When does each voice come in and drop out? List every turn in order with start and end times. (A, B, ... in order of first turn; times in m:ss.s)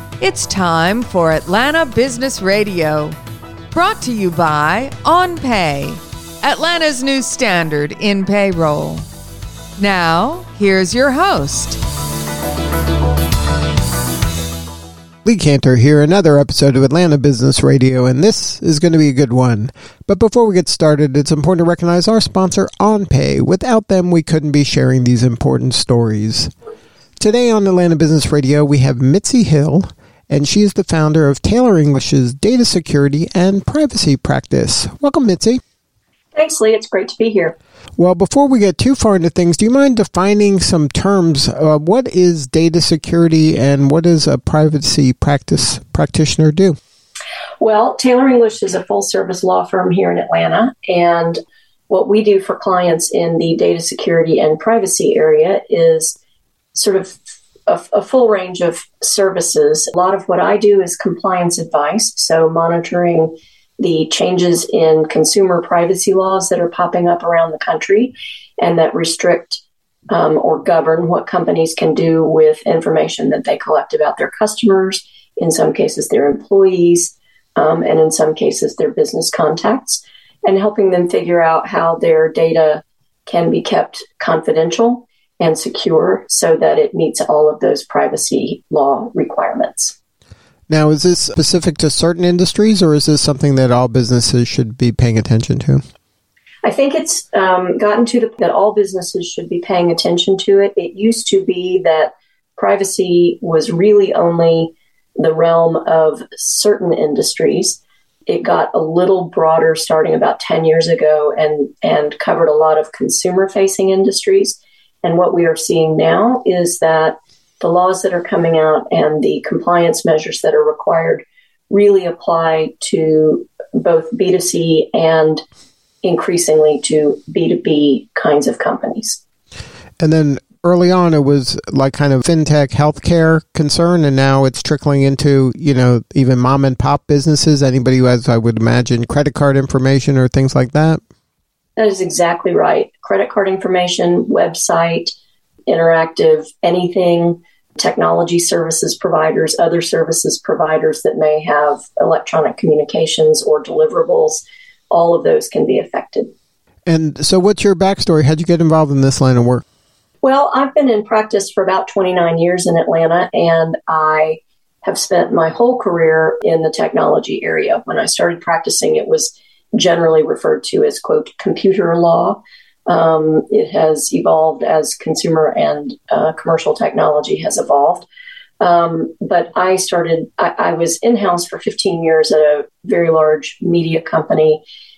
0:00.2-0:03.2 A
0:03.7-0:09.1 A
0:09.8-0:11.8 A
0:15.2-0:26.5 B
0:27.2-0:35.6 B
0:36.3-0:37.6 C
0:38.0-0:46.8 B
0:47.6-0:51.4 C
0:51.9-0:56.2 C
0:56.7-1:30.0 C
1:30.7-1:35.8 B
1:36.6-2:05.4 C
2:06.0-2:09.2 C
2:10.0-2:21.0 B
2:21.8-2:25.1 C
2:25.7-2:36.3 C
2:36.9-2:39.6 B
2:40.2-2:58.1 C
2:58.6-3:04.6 C